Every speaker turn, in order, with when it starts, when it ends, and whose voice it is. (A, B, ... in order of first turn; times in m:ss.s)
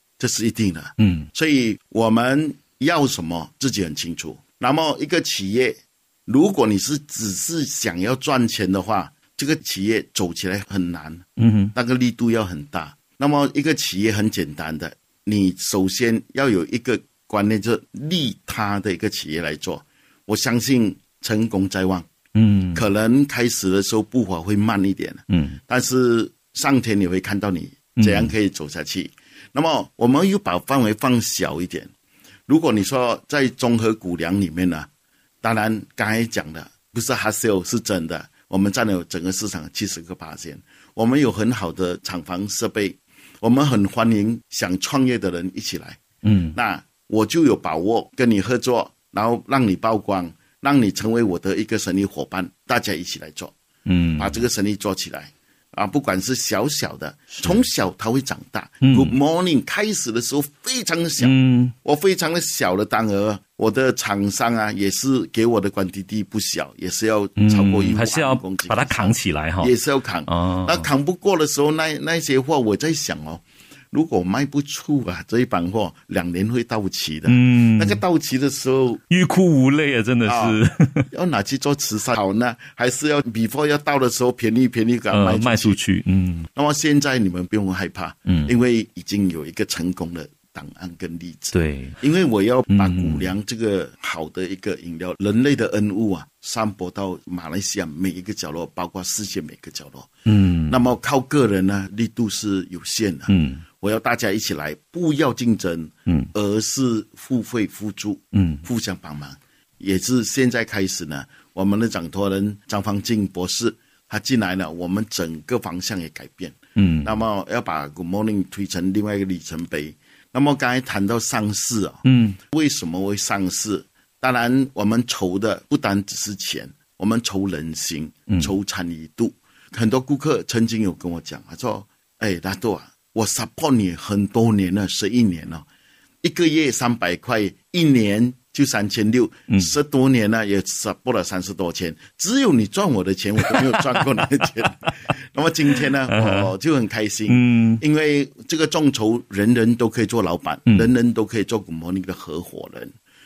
0:00.2-0:22.1 A
0:01.0-0:01.3 B
0:11.4-0:11.7 B
0:22.3-0:22.8 B
0:22.7-0:31.9 A
0:25.3-0:25.6 B
0:28.0-0:28.3 B
0:32.5-0:34.9 A
0:35.4-0:46.0 A
0:46.2-0:46.6 B
0:46.5-0:53.5 A
0:53.8-0:54.4 B
0:54.2-1:19.0 A
0:57.3-0:57.6 B
0:58.8-0:59.1 B
1:01.2-1:01.7 B
1:07.4-1:09.7 B
1:10.3-1:10.9 B
1:17.3-1:18.0 B
1:19.1-1:21.1 B
1:20.2-1:20.6 A
1:21.1-1:25.8 A
1:25.1-1:26.5 B
1:26.5-1:40.1 A
1:28.3-1:28.5 B
1:31.5-1:32.0 B
1:32.7-1:33.3 B
1:40.2-1:40.8 B
1:40.7-2:15.6 A
1:43.3-1:43.6 B
1:48.3-1:48.6 B
1:56.8-1:57.1 B
2:02.0-2:02.4 B
2:16.2-2:32.9 A
2:23.4-2:24.4 B
2:26.1-2:26.5 B
2:27.3-2:27.8 B